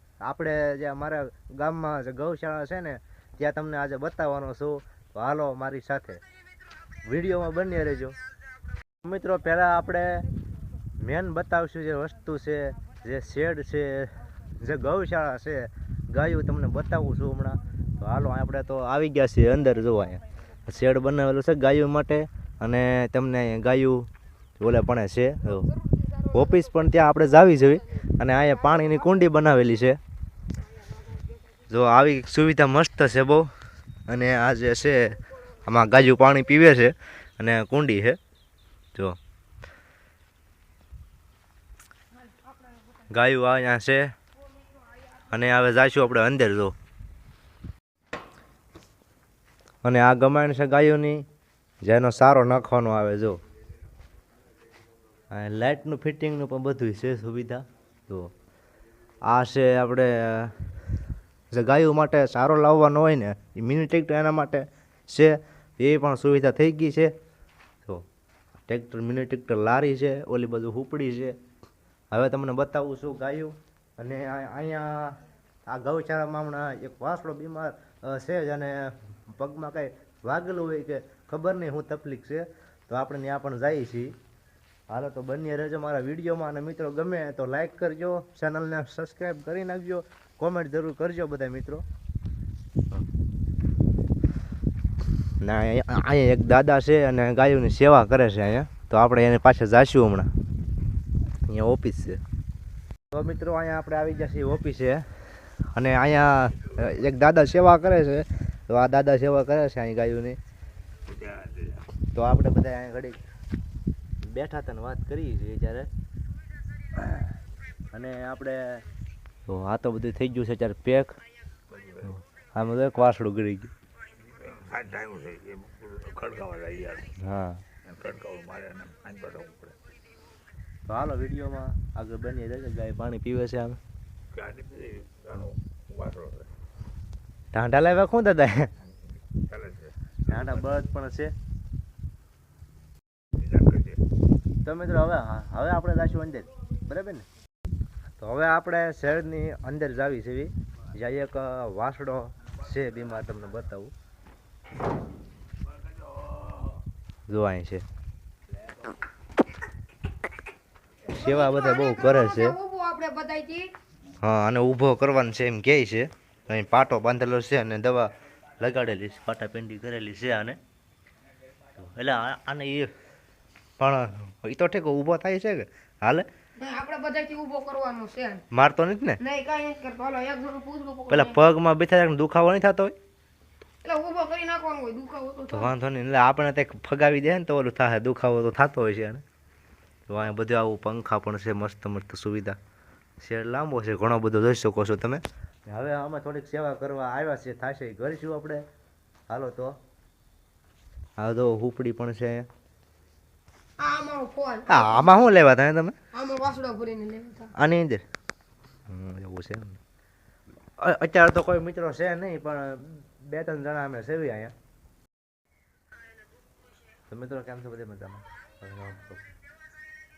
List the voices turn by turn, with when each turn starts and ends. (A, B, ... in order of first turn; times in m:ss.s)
0:00.2-0:06.2 A
0:07.0-0:08.2 A
0:09.0-0:10.3 A
0:11.0-0:24.1 A
0:24.6-0:25.7 A
0:25.7-0:26.6 B
0:26.3-0:30.0 A
0:31.7-0:33.5 A
0:34.1-0:38.2 A
0:43.1-0:44.1 A
0:45.3-0:46.7 A
0:49.8-0:51.2 A
0:51.8-0:53.4 A
0:55.3-0:58.3 A
0:59.3-1:00.6 A
1:01.5-1:07.1 A
1:08.7-1:11.4 A
1:12.1-1:24.2 A
1:24.9-1:31.8 A
1:35.4-1:40.3 A
1:41.5-1:42.2 A
1:43.1-1:45.0 A
1:45.7-1:50.4 A
1:51.1-1:51.7 C
1:52.1-1:53.2 A
1:54.2-1:55.9 A
1:57.0-1:57.2 A
1:57.9-1:58.8 A
1:59.5-2:01.2 A
2:02.1-2:03.7 A
2:04.4-2:07.2 C
2:07.2-2:07.6 A
2:07.8-2:09.8 C
2:10.9-2:13.8 A
2:14.3-2:16.5 C
2:17.5-2:18.7 A
2:19.4-2:19.9 C
2:20.3-2:21.3 A
2:23.4-2:24.0 C
2:24.6-2:27.3 A
2:28.2-2:33.9 A
2:37.3-2:37.8 A
2:41.1-2:43.7 B
2:41.1-2:42.6 A
2:44.2-2:50.6 A
2:51.8-2:52.9 A
2:53.8-2:56.3 A
2:56.6-2:58.4 B
2:58.5-2:59.2 A
2:59.2-3:01.4 B
3:01.1-3:03.0 A
3:03.8-3:05.7 B
3:05.5-3:09.2 A
3:10.1-3:12.6 A
3:13.2-3:18.6 A
3:19.3-3:19.8 A
3:21.2-3:22.5 A
3:23.8-3:25.1 B
3:24.7-3:26.0 A
3:26.1-3:27.5 B
3:27.5-3:28.0 A
3:28.9-3:29.8 A
3:30.8-3:34.5 A
3:37.1-3:39.3 A